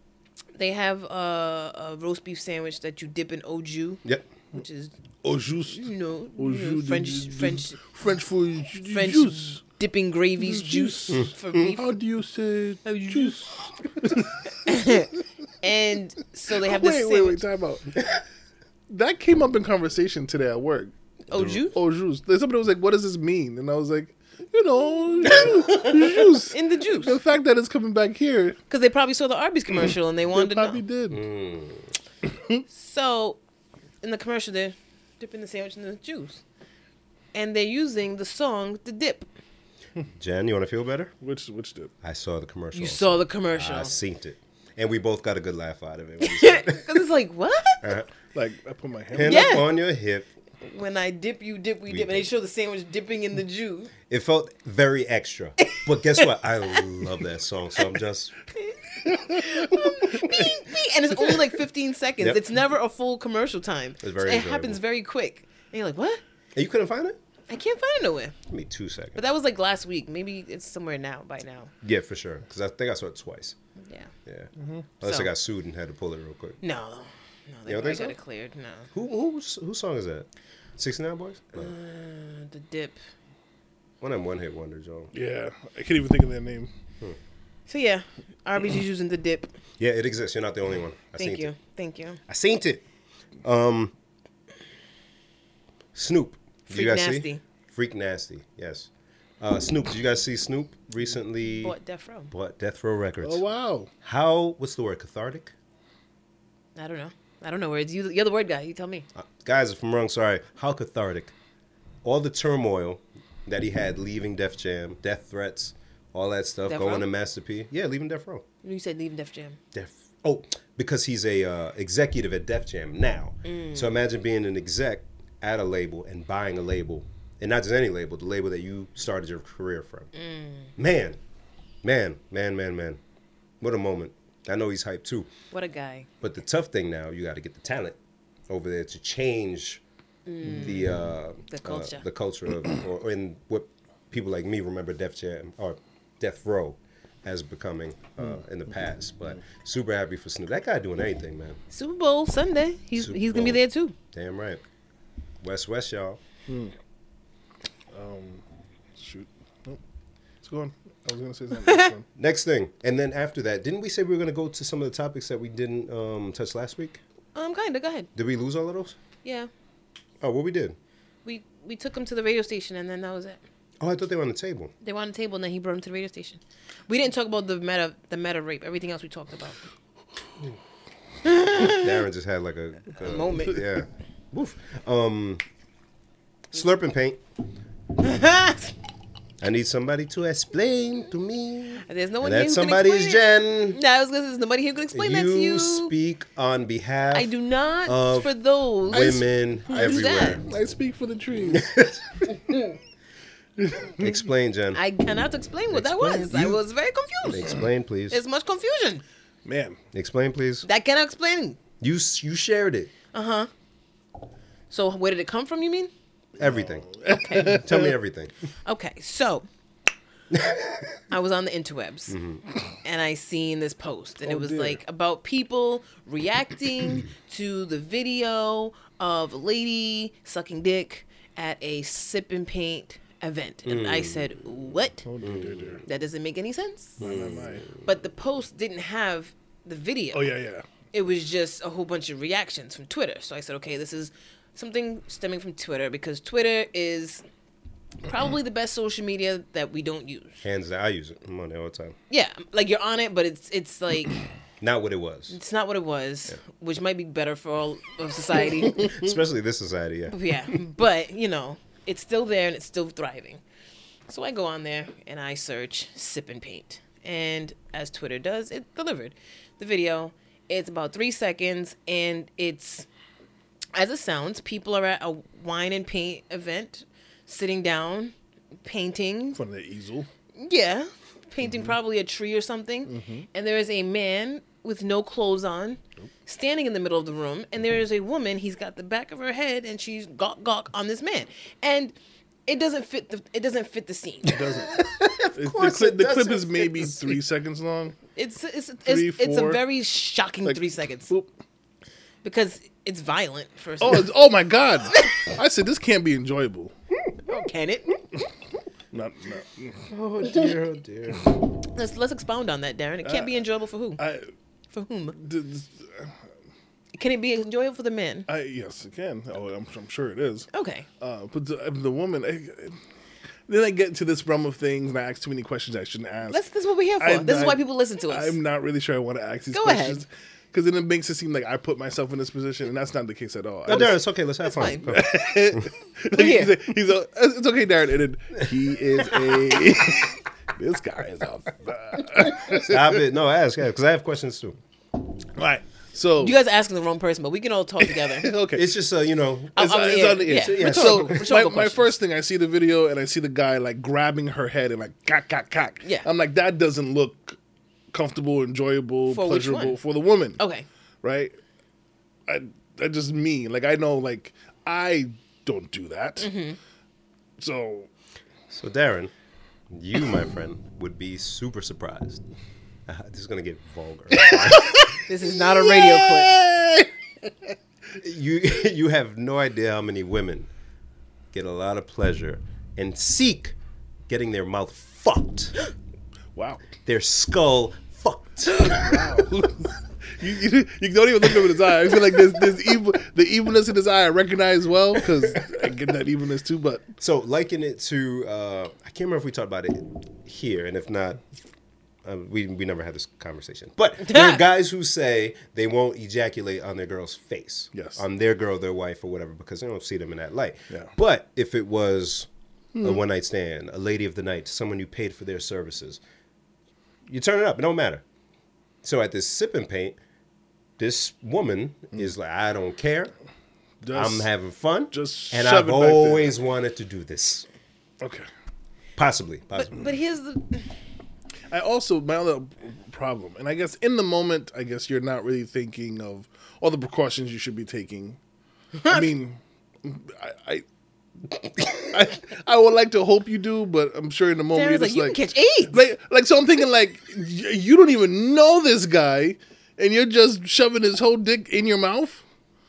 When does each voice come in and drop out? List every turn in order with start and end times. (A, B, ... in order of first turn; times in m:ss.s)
0:00.5-0:05.0 A
0:05.2-0:09.6 B
0:05.7-0:07.8 A
0:08.8-0:12.0 A
0:10.4-0:14.4 B
0:11.1-0:11.6 C
0:12.8-0:13.7 A
0:14.5-0:17.4 A
0:16.5-0:18.0 B
0:18.9-0:20.9 B
0:21.3-0:21.8 A
0:21.4-0:28.6 B
0:25.3-0:27.2 A
0:28.7-0:30.8 A
0:30.3-0:31.2 B
0:31.1-0:31.9 C
0:32.2-0:32.6 B
0:32.7-0:33.4 A
0:34.0-0:36.4 A
0:37.3-0:39.3 A
0:40.2-0:41.1 C
0:41.2-0:41.9 B
0:42.0-0:47.0 C
0:42.7-0:43.9 A
0:46.2-0:47.8 A
0:47.8-0:48.1 C
0:48.3-0:49.6 B
0:49.1-0:50.3 C
0:49.2-0:49.7 A
0:50.6-0:53.9 A
0:51.9-0:52.3 C
0:54.1-0:58.3 C
0:55.6-0:56.8 A
0:58.5-1:06.2 A
0:59.9-1:00.5 C
1:04.0-1:04.8 C
1:06.5-1:07.2 C
1:07.5-1:08.4 A
1:08.5-1:09.2 C
1:09.2-1:11.7 A
1:11.8-1:13.6 C
1:13.8-1:14.1 A
1:14.2-1:16.6 C
1:14.6-1:14.8 B
1:15.0-1:15.3 A
1:16.6-1:18.9 A
1:17.7-1:18.2 C
1:18.9-1:20.3 C
1:20.8-1:21.7 C
1:21.6-1:23.0 A
1:24.0-1:25.1 C
1:25.1-1:26.7 B
1:27.7-1:29.5 A
1:29.8-1:31.5 C
1:31.2-1:32.2 A
1:32.3-1:32.8 C
1:33.4-1:33.9 C
1:35.9-1:38.9 C
1:36.7-1:37.4 A
1:39.4-1:41.8 C
1:41.6-1:42.3 A
1:42.3-1:43.4 C
1:43.2-1:43.9 B
1:44.0-1:45.5 C
1:46.8-1:49.0 A
1:49.2-1:51.3 C
1:52.0-1:58.4 C
1:56.7-1:57.0 A
1:58.6-1:59.6 A
1:59.7-2:10.1 C
2:03.4-2:03.9 A
2:10.1-2:10.7 A
2:10.8-2:11.2 C
2:11.8-2:13.0 C
2:13.6-2:15.3 C
2:15.5-2:16.1 A
2:16.2-2:18.0 C
2:18.5-2:19.8 C
2:20.3-2:22.0 A
2:20.4-2:31.6 C
2:31.7-2:33.9 A
2:33.0-2:34.6 C
2:35.4-2:36.2 C
2:36.5-2:36.7 B
2:37.9-2:38.4 B
2:39.0-2:39.8 B
2:40.4-2:42.0 B
2:41.6-2:41.9 A
2:42.2-2:47.0 C
2:47.3-2:48.1 A
2:48.1-2:49.0 C
2:49.2-2:49.5 A
2:50.2-2:50.8 C
2:51.2-2:53.4 A
2:53.8-2:54.7 C
2:54.8-2:59.6 A
3:01.2-3:02.0 A
3:01.5-3:05.4 C
3:02.9-3:03.6 A
3:06.5-3:07.2 C
3:08.0-3:08.7 A
3:09.4-3:13.8 C
3:11.8-3:15.9 A
3:14.9-3:17.3 C
3:17.1-3:20.4 A
3:17.8-3:18.3 C
3:18.9-3:20.4 C
3:18.9-3:21.7 B
3:21.5-3:22.4 C
3:23.6-3:24.2 B
3:24.0-3:24.8 C
3:24.7-3:27.6 A
3:25.7-3:26.6 C
3:27.3-3:28.2 C
3:28.1-3:29.0 A
3:29.4-3:29.8 B
3:29.9-3:30.6 C
3:30.6-3:31.6 A
3:31.8-3:32.9 C
3:33.1-3:33.5 A
3:34.7-3:35.9 A
3:36.4-3:36.9 C
3:36.4-3:37.9 B
3:37.1-3:37.6 A
3:37.4-3:38.3 C
3:38.6-3:39.4 A
3:40.3-3:40.8 C
3:41.1-3:42.2 A
3:42.1-3:42.4 C
3:42.8-3:55.0 A
3:44.2-3:44.8 B
3:53.6-3:54.3 C
3:55.0-3:55.8 B
3:55.2-3:55.8 C
3:55.8-3:57.0 A
3:57.0-3:57.7 B
3:57.0-3:57.8 C
3:57.8-4:00.3 A
4:00.1-4:00.6 B
4:00.9-4:07.2 A
4:08.0-4:10.4 A
4:10.4-4:11.9 C
4:12.1-4:14.2 A
4:14.6-4:15.4 C
4:15.3-4:19.0 A
4:18.7-4:20.6 C
4:20.1-4:23.4 A
4:24.1-4:32.9 A
4:33.7-4:38.1 A
4:38.6-4:39.4 A
4:39.3-4:40.1 B
4:40.4-4:51.9 A
4:41.4-4:41.7 B
4:42.8-4:43.3 B
4:52.5-4:54.5 A
4:54.3-4:58.0 B
4:54.5-4:57.1 C
4:58.2-5:01.1 A
4:58.8-4:59.6 B
5:00.4-5:01.3 B
5:02.2-5:04.1 A
5:03.8-5:06.7 B
5:07.3-5:07.9 A
5:08.9-5:09.8 B
5:09.9-5:11.3 C
5:11.7-5:14.0 A
5:13.0-5:13.4 B
5:14.0-5:14.3 B
5:14.7-5:15.1 A
5:15.1-5:16.2 B
5:16.9-5:18.3 A
5:18.3-5:20.5 B
5:20.5-5:20.9 A
5:21.0-5:22.8 B
5:23.5-5:26.4 B
5:26.3-5:28.4 A
5:27.0-5:34.0 B
5:29.5-5:30.0 A
5:33.7-5:35.7 C
5:34.4-5:34.9 A
5:34.8-5:43.0 B
5:36.1-5:36.5 A
5:42.2-5:44.6 C
5:45.3-5:46.4 B
5:46.2-5:48.3 A
5:47.8-5:48.7 B
5:48.5-5:49.6 C
5:49.6-5:51.9 A
5:49.6-5:57.4 B
5:50.2-5:51.2 C
5:57.9-6:00.4 B
5:59.1-5:59.8 A
6:00.4-6:00.6 A
6:01.0-6:01.4 B
6:02.3-6:06.3 B
6:06.2-6:06.6 A
6:07.4-6:07.9 B
6:08.5-6:09.1 C
6:09.7-6:12.2 C
6:12.9-6:14.8 C
6:14.2-6:17.6 B
6:14.9-6:16.3 A
6:18.0-6:20.5 C
6:21.3-6:23.5 C
6:24.1-6:25.5 C
6:26.3-6:26.6 B
6:26.8-6:29.0 C
6:28.5-6:36.9 B
6:37.0-6:41.2 C
6:42.0-6:52.3 C
6:44.0-6:44.4 A
6:47.7-6:48.0 B
6:52.7-6:53.0 B
6:52.8-6:56.0 C
6:57.1-6:58.0 C
6:58.8-7:00.0 C
7:00.8-7:03.1 C
7:03.8-7:04.3 B
7:03.9-7:07.4 C
7:04.9-7:06.3 B
7:08.0-7:08.3 B
7:09.0-7:09.8 C
7:09.5-7:10.7 A
7:11.5-7:18.2 B
7:18.8-7:19.1 A
7:18.8-7:20.6 B
7:21.8-7:25.2 B
7:24.5-7:25.8 A
7:25.7-7:32.2 B